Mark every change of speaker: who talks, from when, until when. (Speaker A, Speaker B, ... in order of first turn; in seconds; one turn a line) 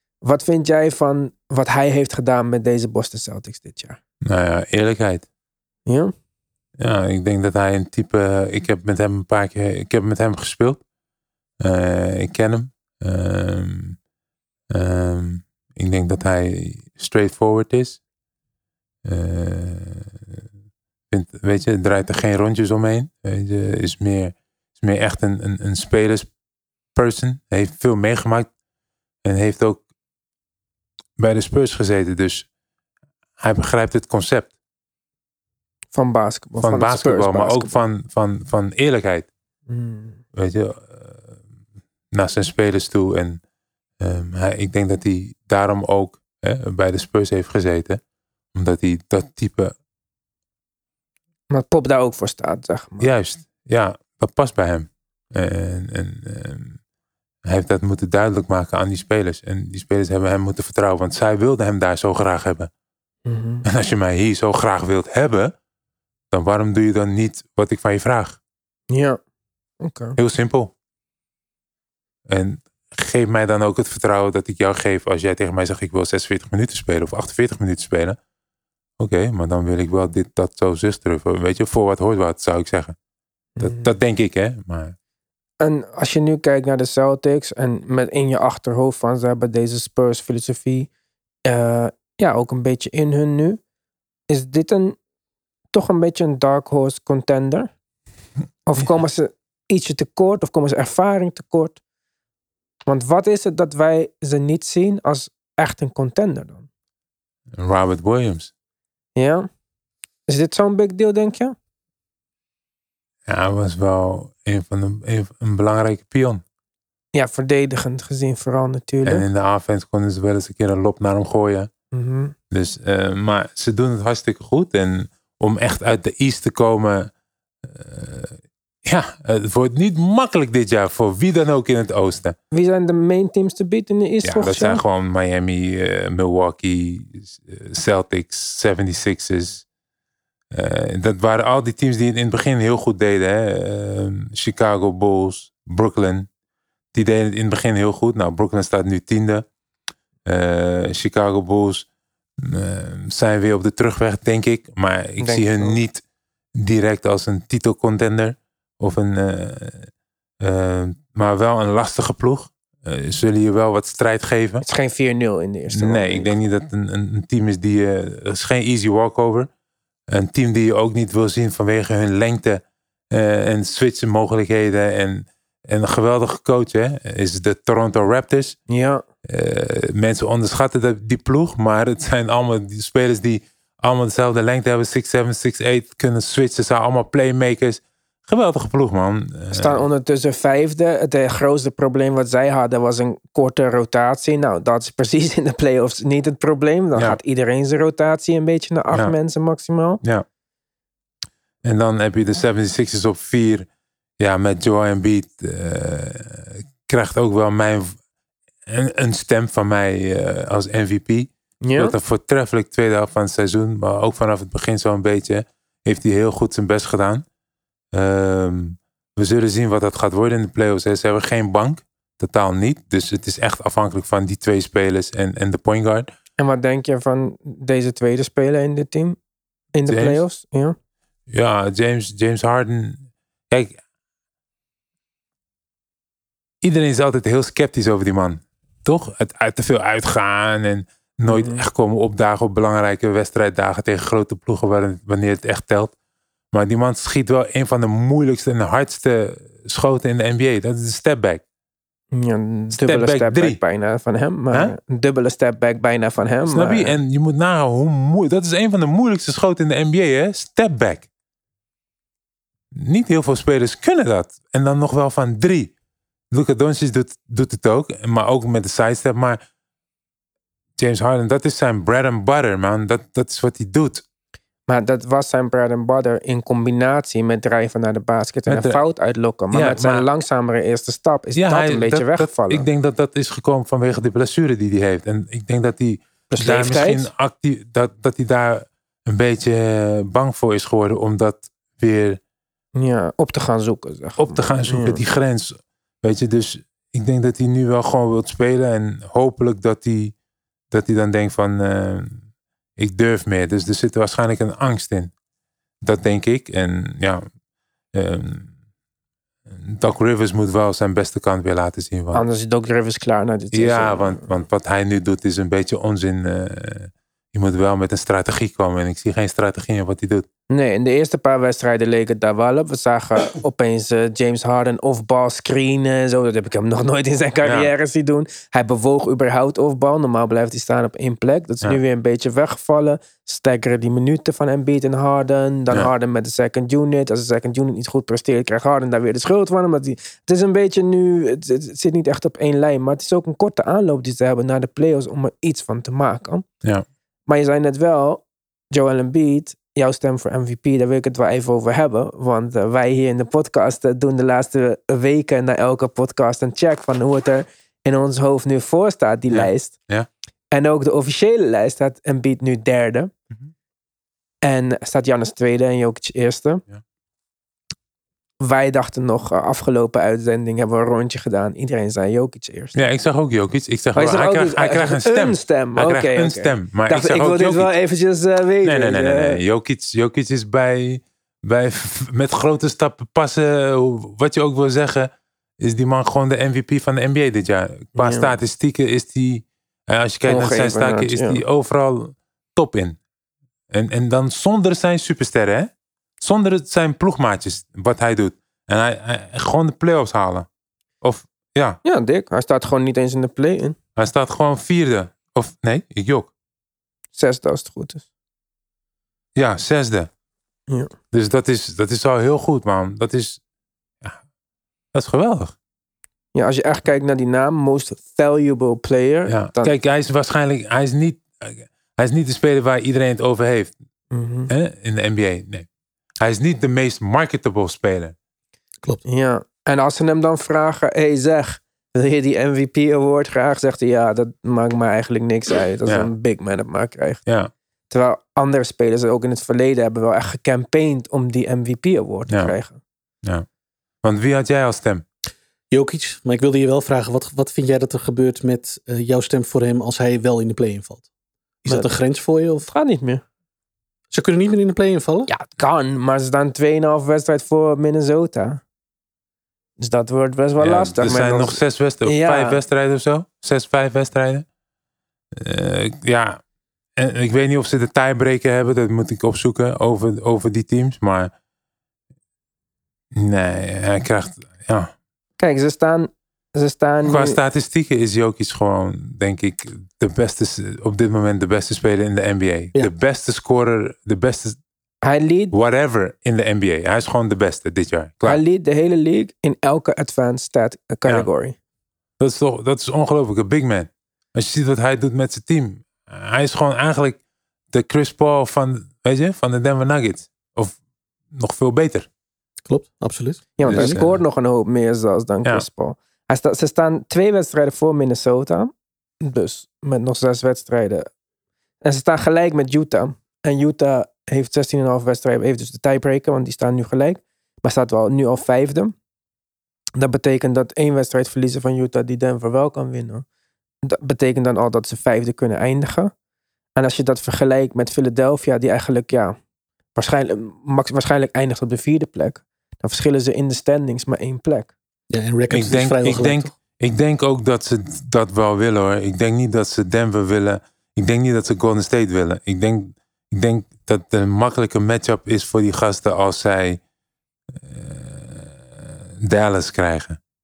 Speaker A: 0.2-4.0
Speaker B: 4.2-5.2
Speaker A: 5.9-6.1
Speaker B: 6.8-10.8
Speaker B: 11.6-14.0
Speaker B: 14.7-18.0
Speaker B: 19.0-20.4
Speaker B: 21.1-26.3
Speaker B: 26.9-28.5
Speaker B: 29.2-29.8
Speaker B: 31.2-32.5
Speaker B: 33.4-34.5
Speaker A: 35.9-37.8
Speaker B: 36.6-39.3
Speaker A: 39.7-40.2
Speaker B: 40.3-41.2
Speaker B: 42.1-43.4
Speaker B: 44.0-48.0
Speaker B: 48.5-49.7
Speaker A: 51.5-53.1
Speaker B: 53.0-56.8
Speaker B: 57.4-62.7
Speaker A: 63.2-63.6
Speaker B: 63.6-65.5
Speaker B: 66.3-68.4
Speaker A: 68.9-69.2
Speaker A: 69.8-70.2
Speaker B: 70.2-70.7
Speaker B: 72.3-78.2
Speaker B: 79.0-83.0
Speaker A: 83.6-83.9
Speaker B: 83.6-84.9
Speaker A: 85.6-90.9
Speaker A: 91.5-93.6
Speaker A: 94.3-95.0
Speaker A: 95.7-97.7
Speaker A: 98.7-101.8
Speaker A: 102.8-106.7
Speaker B: 107.5-108.5
Speaker A: 109.2-109.5
Speaker A: 110.3-111.5
Speaker B: 113.3-116.4
Speaker A: 117.1-119.2
Speaker B: 119.0-121.7
Speaker A: 121.9-122.3
Speaker B: 122.5-127.1
Speaker B: 127.6-132.3
Speaker A: 132.5-134.8
Speaker B: 134.2-139.6
Speaker B: 140.5-146.3
Speaker B: 146.9-149.4
Speaker B: 150.2-151.8
Speaker B: 152.4-156.0
Speaker A: 155.2-155.8
Speaker B: 156.6-159.9
Speaker B: 160.4-164.6
Speaker A: 164.6-166.3
Speaker B: 165.7-169.5
Speaker B: 170.1-172.6
Speaker B: 173.1-178.6
Speaker A: 178.7-179.0
Speaker B: 179.2-189.8
Speaker A: 189.5-200.0
Speaker B: 201.6-203.7
Speaker B: 204.2-207.9
Speaker B: 208.7-217.2
Speaker A: 211.6-211.9
Speaker B: 217.9-226.1
Speaker A: 226.4-229.2
Speaker A: 229.7-230.8
Speaker B: 229.9-230.2
Speaker B: 231.3-233.8
Speaker B: 236.6-245.9
Speaker A: 241.2-241.6
Speaker B: 246.5-251.4
Speaker A: 252.1-257.0
Speaker B: 252.7-253.6
Speaker B: 256.4-261.1
Speaker B: 262.7-265.7
Speaker B: 266.3-269.4
Speaker B: 270.8-274.0
Speaker A: 274.7-282.7
Speaker B: 278.5-278.8
Speaker B: 279.5-280.1
Speaker B: 281.3-292.2
Speaker A: 286.3-287.1
Speaker A: 292.8-295.0
Speaker B: 294.2-300.1
Speaker B: 300.7-302.2
Speaker B: 302.8-305.1
Speaker B: 305.8-307.2
Speaker B: 307.9-308.5
Speaker B: 309.5-312.2
Speaker A: 312.1-314.2
Speaker B: 313.5-320.2
Speaker A: 320.5-346.4
Speaker B: 327.4-327.7
Speaker A: 347.3-359.7
Speaker B: 359.3-360.1
Speaker A: 360.5-363.1
Speaker A: 364.4-366.6
Speaker A: 368.4-372.8
Speaker B: 372.7-377.7
Speaker A: 373.9-379.4
Speaker B: 378.6-393.0
Speaker A: 387.9-388.3
Speaker A: 390.3-391.4
Speaker B: 393.7-400.5
Speaker B: 401.0-401.8
Speaker A: 401.8-403.8
Speaker B: 403.9-406.3
Speaker A: 407.1-408.0
Speaker B: 409.4-410.1
Speaker B: 411.1-413.4
Speaker B: 414.9-415.5
Speaker A: 416.3-419.7
Speaker B: 419.3-423.7
Speaker A: 424.1-424.5
Speaker B: 424.5-425.7
Speaker B: 426.2-428.1
Speaker A: 429.0-437.2
Speaker B: 437.2-437.5
Speaker A: 437.9-442.8
Speaker B: 444.0-445.0
Speaker C: 445.7-451.0
Speaker C: 451.6-452.6
Speaker A: 452.7-453.2
Speaker C: 454.1-455.3
Speaker A: 455.3-458.6
Speaker A: 459.8-462.6
Speaker B: 460.6-464.4
Speaker B: 465.3-466.4
Speaker B: 467.0-471.3
Speaker B: 473.1-474.9
Speaker A: 475.4-477.4
Speaker B: 477.1-484.6
Speaker A: 485.0-485.5
Speaker B: 485.5-488.4
Speaker A: 488.2-491.6
Speaker B: 492.2-497.2
Speaker B: 497.7-500.8
Speaker B: 501.3-502.1
Speaker C: 502.7-504.0
Speaker A: 503.6-511.1
Speaker B: 503.6-504.2
Speaker A: 511.8-518.9
Speaker A: 520.0-523.2
Speaker A: 523.8-526.1
Speaker A: 526.8-529.4
Speaker A: 529.9-534.7
Speaker C: 535.1-536.5
Speaker B: 535.5-546.8
Speaker B: 547.5-550.2